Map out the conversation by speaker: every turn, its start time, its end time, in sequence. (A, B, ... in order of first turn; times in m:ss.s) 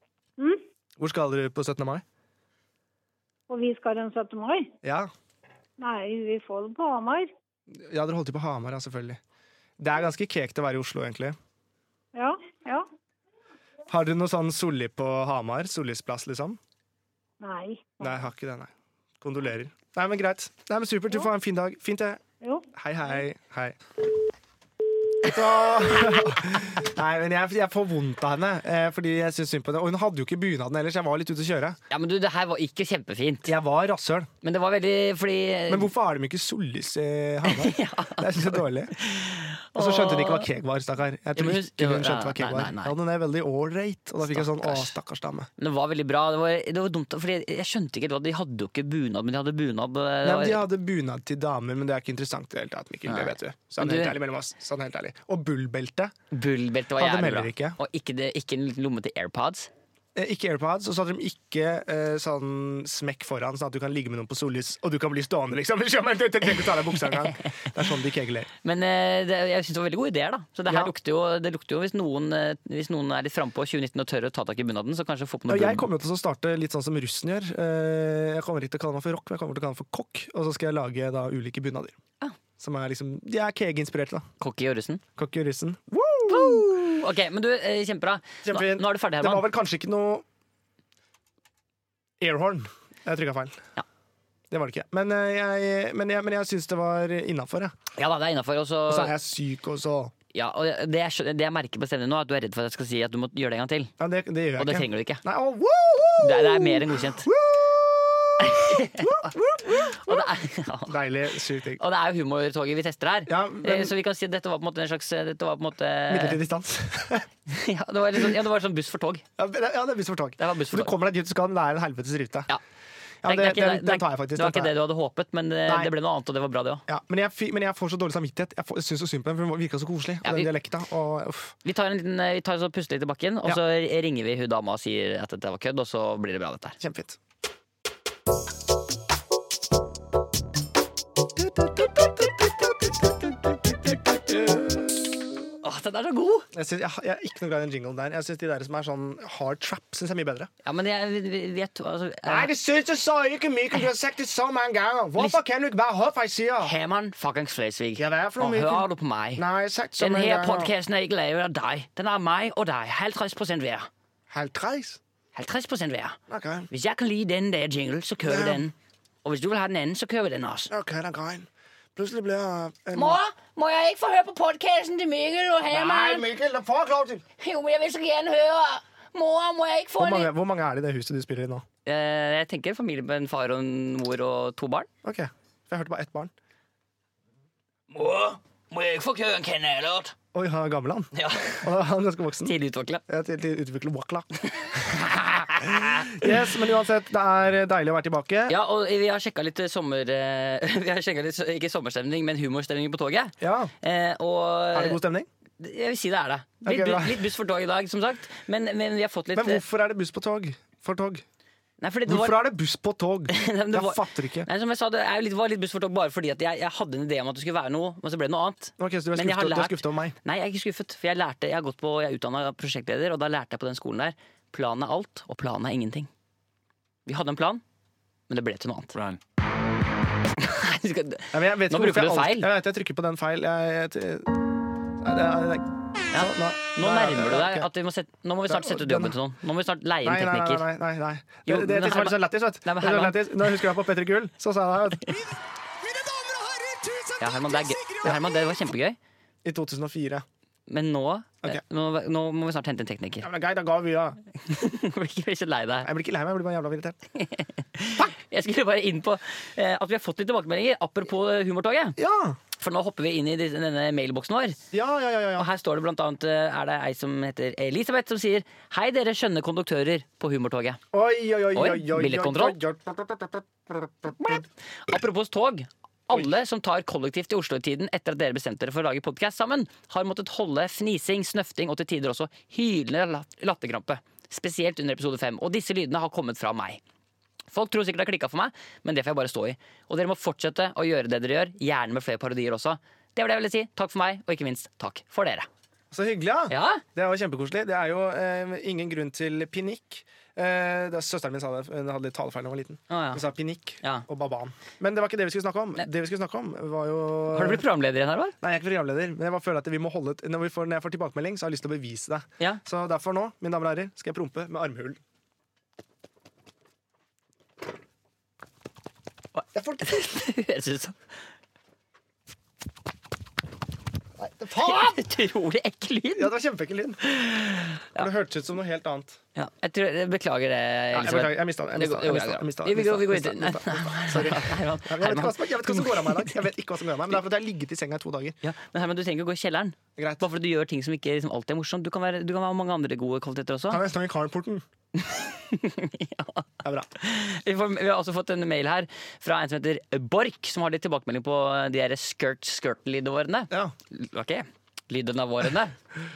0:00.4-0:00.6 A
0:01.0-0:02.0 B
0:03.5-0:04.7 A
0:04.8-0:05.1 B
0:05.8-0:07.3 A
0:07.7-0:09.2 B
0:09.8-0:11.4 B
0:12.1-0:12.9 A
0:13.9-0:16.6 B
0:17.4-0:18.2 A
0:18.0-0:22.2 B
0:22.4-0:22.7 A
0:22.7-0:23.8 B
0:25.2-0:31.8 B
0:31.9-0:33.5 C
0:33.5-0:34.3 B
0:34.4-0:35.9 C
0:35.7-0:38.9 B
0:37.4-0:40.5 C
0:39.8-0:45.5 B
0:41.4-0:42.9 C
0:44.2-0:44.9 C
0:45.6-0:50.6 C
0:50.2-0:56.1 B
0:53.1-0:54.2 C
0:56.3-0:59.7 C
0:57.0-0:57.8 B
1:00.1-1:08.5 B
1:08.6-1:15.9 C
1:15.5-1:22.0 B
1:22.6-1:24.3 B
1:24.4-1:25.0 C
1:25.2-1:26.8 B
1:26.3-1:29.4 C
1:28.4-1:30.2 B
1:32.2-1:33.7 B
1:34.5-1:37.7 B
1:37.9-1:39.1 C
1:38.9-1:40.1 B
1:40.3-1:43.9 C
1:44.0-1:50.3 B
1:44.6-1:45.2 C
1:46.2-1:47.3 C
1:48.4-1:51.0 C
1:50.9-1:51.8 B
1:51.8-1:56.4 C
1:53.3-1:53.9 B
1:56.1-1:57.3 B
1:57.5-1:59.2 C
1:59.4-2:02.5 B
2:00.4-2:00.9 C
2:03.2-2:04.7 B
2:03.2-2:06.8 C
2:06.9-2:11.6 B
2:10.2-2:10.5 C
2:11.6-2:16.8 C
2:16.8-2:17.2 B
2:21.3-2:25.4 B
2:25.6-2:26.5 C
2:26.5-2:30.5 B
2:30.6-2:32.5 C
2:32.2-2:36.7 B
2:36.6-2:39.4 C
2:38.0-2:40.7 B
2:40.0-2:43.9 C
2:44.3-2:45.0 B
2:45.3-2:46.2 C
2:46.3-2:46.7 B
2:46.7-2:50.7 C
2:48.2-2:48.6 B
2:50.7-2:53.2 B
2:52.9-2:56.3 C
2:55.7-2:57.2 B
2:57.4-3:00.3 C
3:00.0-3:01.6 B
3:01.8-3:04.9 C
3:05.0-3:06.3 B
3:07.9-3:10.1 C
3:10.3-3:12.5 B
3:11.1-3:11.6 C
3:12.4-3:13.0 C
3:13.1-3:14.3 B
3:14.6-3:16.4 C
3:15.6-3:18.5 B
3:18.5-3:25.0 C
3:23.4-3:23.7 B
3:24.7-3:25.3 B
3:25.6-3:29.6 C
3:26.6-3:27.2 B
3:29.3-3:31.2 B
3:31.8-3:32.4 C
3:32.0-3:34.5 B
3:33.3-3:46.1 C
3:38.8-3:40.1 B
3:47.0-3:47.6 C
3:48.3-3:49.0 C
3:50.4-3:52.5 C
3:51.3-3:54.4 B
3:55.0-3:57.7 B
3:56.1-4:00.6 C
3:58.5-3:59.2 B
4:00.0-4:08.6 B
4:01.4-4:03.3 C
4:07.2-4:09.0 C
4:09.4-4:10.2 B
4:10.7-4:13.3 C
4:13.2-4:14.2 B
4:14.4-4:15.9 C
4:15.8-4:17.0 B
4:17.2-4:22.0 C
4:22.0-4:22.4 B
4:22.6-4:24.6 C
4:24.7-4:25.5 B
4:25.4-4:30.8 C
4:30.9-4:34.4 B
4:31.5-4:32.6 C
4:34.8-4:46.8 C
4:47.5-4:55.5 C
4:55.9-5:07.6 B
4:56.5-4:56.8 C
5:02.9-5:03.2 C
5:07.3-5:08.4 C
5:08.4-5:15.0 B
5:19.4-5:21.0 C
5:19.5-5:20.0 B
5:24.2-5:25.0 B
5:24.6-5:26.3 C
5:26.1-5:27.0 B
5:27.0-5:28.1 C
5:27.9-5:29.2 B
5:29.3-5:36.4 C
5:30.9-5:38.4 B
5:38.4-5:43.8 C
5:40.0-5:40.2 B
5:43.7-5:44.6 B
5:45.0-5:55.8 C
5:46.6-5:46.9 B